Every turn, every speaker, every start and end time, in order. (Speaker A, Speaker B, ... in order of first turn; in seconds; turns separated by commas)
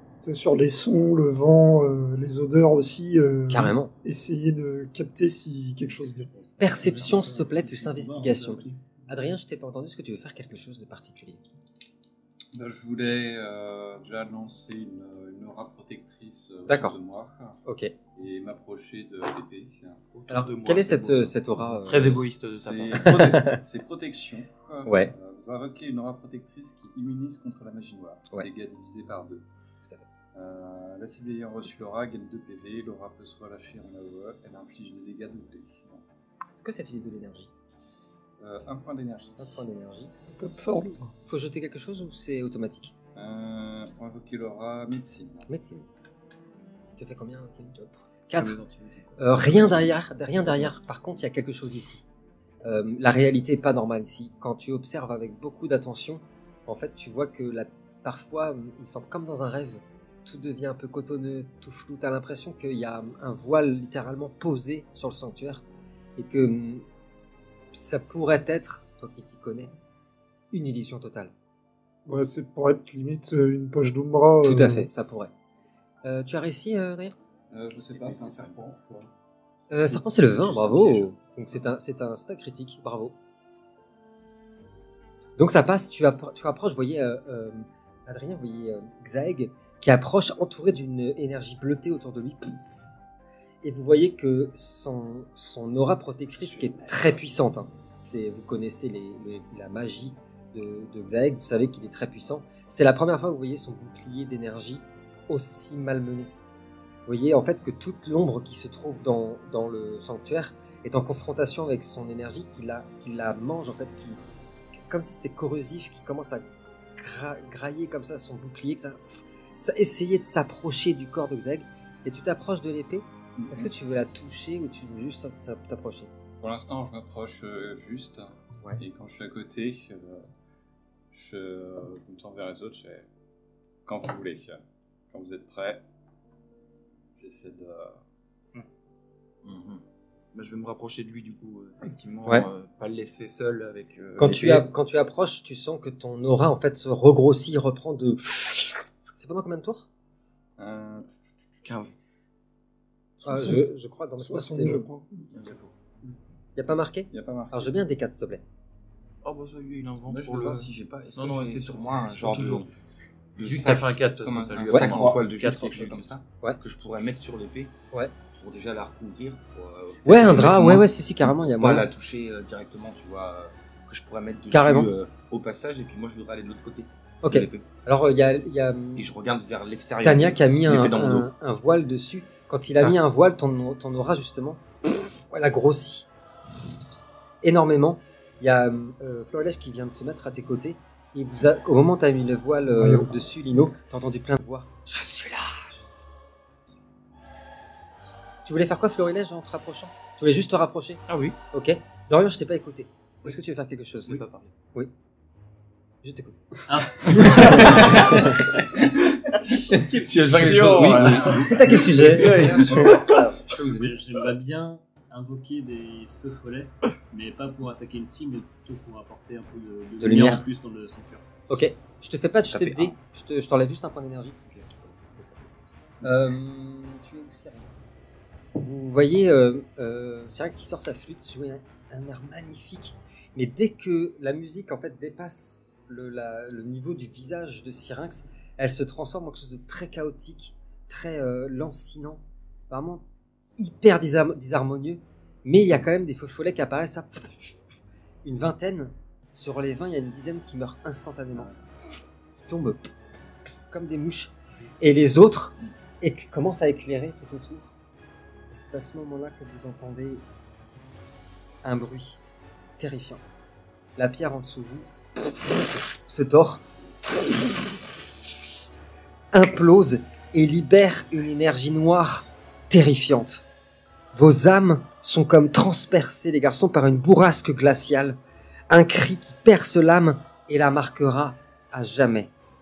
Speaker A: 0.2-6.3, Speaker B: 3.5-3.9, Speaker B: 6.6-11.4, Speaker C: 6.6-7.0, Speaker D: 6.8-8.8, Speaker C: 12.5-17.6, Speaker B: 16.7-16.9, Speaker B: 17.6-17.9, Speaker C: 18.1-20.2, Speaker E: 20.1-23.2, Speaker B: 20.3-22.2, Speaker C: 22.5-29.4, Speaker B: 22.9-23.6, Speaker B: 24.9-25.1, Speaker C: 30.3-36.0, Speaker B: 36.4-37.5, Speaker C: 38.4-39.4, Speaker B: 39.4-40.1, Speaker A: 40.3-41.1, Speaker B: 41.2-42.9, Speaker C: 43.1-45.5, Speaker B: 45.5-45.8, Speaker B: 47.0-48.6, Speaker C: 48.3-50.0, Speaker B: 49.2-52.0, Speaker B: 52.6-65.6, Speaker B: 66.2-66.8, Speaker B: 67.7-69.7, Speaker B: 70.5-71.3, Speaker A: 72.0-74.9, Speaker B: 74.4-75.3, Speaker B: 76.0-77.1, Speaker C: 77.5-79.1, Speaker F: 77.9-78.6, Speaker B: 79.7-83.1, Speaker C: 79.8-81.7, Speaker B: 85.4-92.5, Speaker B: 93.6-106.3, Speaker B: 107.0-114.2, Speaker B: 114.9-116.4, Speaker B: 117.0-126.1, Speaker C: 123.4-123.7, Speaker C: 126.4-130.2, Speaker C: 131.1-133.1, Speaker C: 133.8-134.6, Speaker C: 135.1-135.8, Speaker C: 137.2-138.0, Speaker F: 139.4-139.8, Speaker E: 140.3-144.7, Speaker B: 144.2-149.9, Speaker C: 150.6-151.9, Speaker E: 151.6-151.9, Speaker A: 153.2-155.3, Speaker B: 153.2-154.9, Speaker C: 155.3-155.7, Speaker B: 156.6-158.4, Speaker C: 157.1-157.8, Speaker E: 159.2-162.7, Speaker F: 160.1-162.7, Speaker F: 163.4-167.8, Speaker E: 163.4-166.1, Speaker C: 164.9-165.2, Speaker F: 168.3-177.7, Speaker B: 170.0-171.8, Speaker B: 174.5-174.9, Speaker B: 177.2-179.0, Speaker F: 178.9-181.3, Speaker B: 180.0-184.6, Speaker B: 185.3-186.1, Speaker B: 187.4-195.8, Speaker A: 192.8-193.2, Speaker B: 198.4-201.0, Speaker E: 201.1-201.3, Speaker B: 201.5-204.9, Speaker E: 204.0-204.5, Speaker B: 206.0-206.4, Speaker D: 206.7-208.3, Speaker B: 207.0-207.8, Speaker F: 209.5-213.9, Speaker C: 209.7-213.2, Speaker B: 211.3-212.9, Speaker D: 213.7-221.2, Speaker B: 220.0-220.4, Speaker B: 221.5-225.2, Speaker F: 222.5-222.9, Speaker B: 226.0-227.8, Speaker B: 228.6-243.0, Speaker B: 243.6-247.5, Speaker B: 248.2-251.5, Speaker B: 252.4-252.9, Speaker B: 253.7-257.7, Speaker B: 258.5-260.2, Speaker B: 261.6-262.2, Speaker B: 262.8-263.2, Speaker B: 264.0-264.9, Speaker B: 265.9-266.6, Speaker B: 269.3-273.4, Speaker B: 274.1-282.3